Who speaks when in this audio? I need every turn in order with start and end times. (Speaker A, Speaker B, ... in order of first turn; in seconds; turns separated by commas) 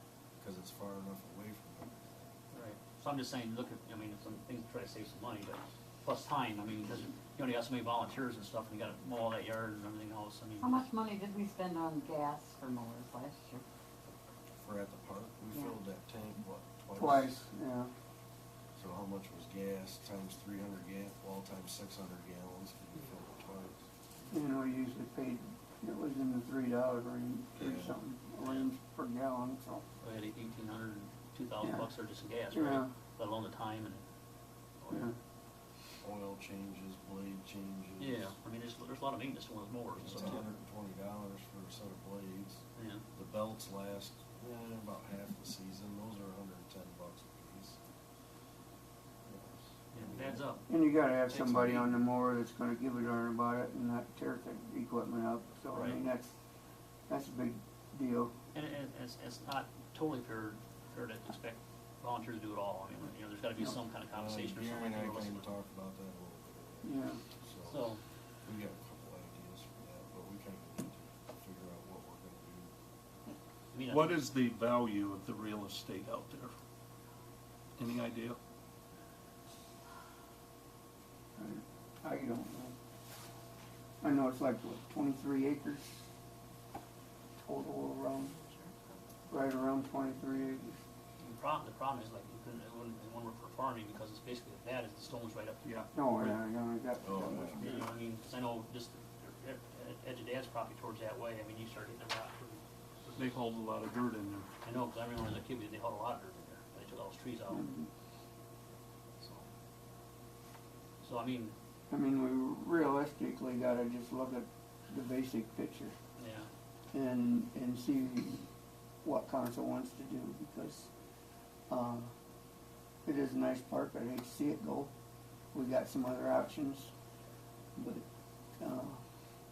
Speaker A: 0.4-2.3, Speaker B: 2.5-10.8, Speaker C: 10.6-13.6, Speaker A: 14.6-17.4, Speaker D: 16.9-17.9, Speaker A: 18.8-23.8, Speaker D: 24.3-29.8, Speaker A: 27.6-27.9, Speaker B: 28.4-28.7, Speaker B: 30.0-34.0, Speaker D: 31.6-31.9, Speaker D: 32.5-32.9, Speaker B: 34.8-35.1, Speaker D: 34.9-35.1, Speaker A: 36.0-38.3, Speaker B: 38.0-40.5, Speaker A: 40.0-42.6, Speaker B: 42.8-43.0, Speaker A: 43.1-47.8, Speaker A: 49.2-50.4, Speaker B: 49.9-50.6, Speaker D: 50.7-56.3, Speaker A: 51.3-51.9, Speaker B: 55.7-56.0, Speaker D: 57.1-58.3, Speaker B: 58.5-65.5, Speaker A: 64.1-67.9, Speaker D: 66.8-67.2, Speaker B: 67.7-68.0, Speaker A: 68.4-72.7, Speaker B: 73.7-74.1, Speaker E: 73.9-76.5, Speaker E: 77.8-78.4, Speaker D: 81.4-82.7, Speaker D: 84.0-86.0, Speaker D: 87.4-88.3, Speaker D: 89.3-90.8, Speaker B: 91.2-95.6, Speaker D: 95.9-97.9, Speaker A: 97.0-97.7, Speaker B: 97.6-103.2, Speaker E: 103.2-104.5, Speaker B: 104.6-107.7, Speaker D: 107.5-107.9, Speaker B: 109.2-109.5, Speaker B: 111.0-111.5, Speaker D: 111.9-115.9, Speaker B: 116.2-116.5, Speaker D: 116.9-118.4, Speaker D: 119.0-120.9, Speaker D: 121.7-122.1, Speaker D: 123.0-124.9, Speaker D: 125.5-126.9, Speaker D: 127.8-128.0, Speaker D: 128.6-129.0